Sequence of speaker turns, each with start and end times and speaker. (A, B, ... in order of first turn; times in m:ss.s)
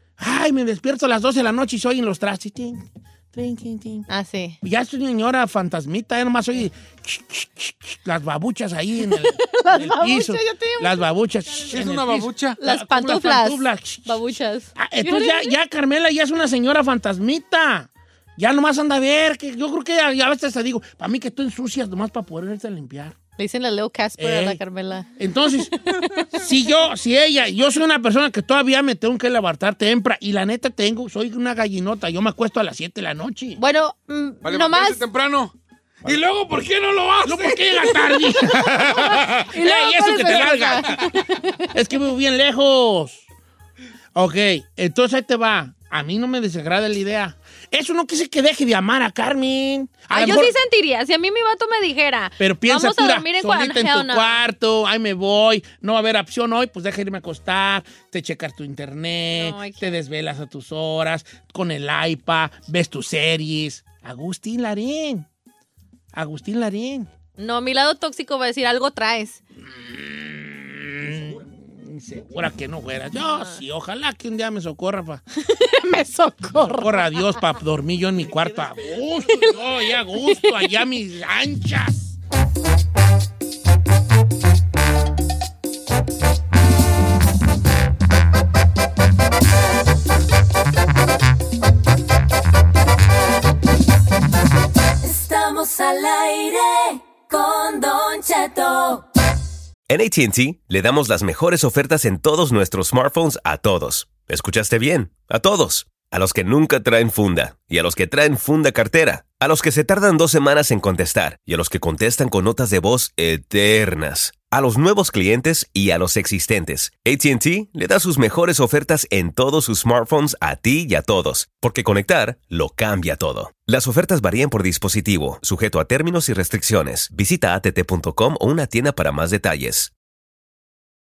0:00.2-0:04.1 A
0:04.1-0:04.6 B
0:04.6-0:23.2 A
0:09.1-0:11.1 B
0:11.7-0:12.6 C
0:12.6-0:15.5 B
0:23.4-0:25.1 B
0:24.2-0:24.6 A
0:25.2-0:25.7 A
0:25.6-0:26.3 B
0:26.3-0:33.6 A
0:33.6-0:35.0 B
0:34.4-0:38.0 C
0:37.2-0:41.1 A
0:39.0-0:41.7 B
0:41.7-0:43.2 A
0:44.1-0:50.6 A
0:50.1-0:54.4 B
0:52.4-1:05.3 A
0:59.4-0:59.9 B
1:06.1-1:07.1 A
1:07.4-1:09.4 B
1:09.6-1:15.2 A
1:15.4-1:17.4 B
1:16.7-1:22.2 A
1:19.3-1:19.5 B
1:20.1-1:20.7 B
1:35.1-1:36.6 D
1:37.3-1:39.0 D
1:39.9-2:09.9 E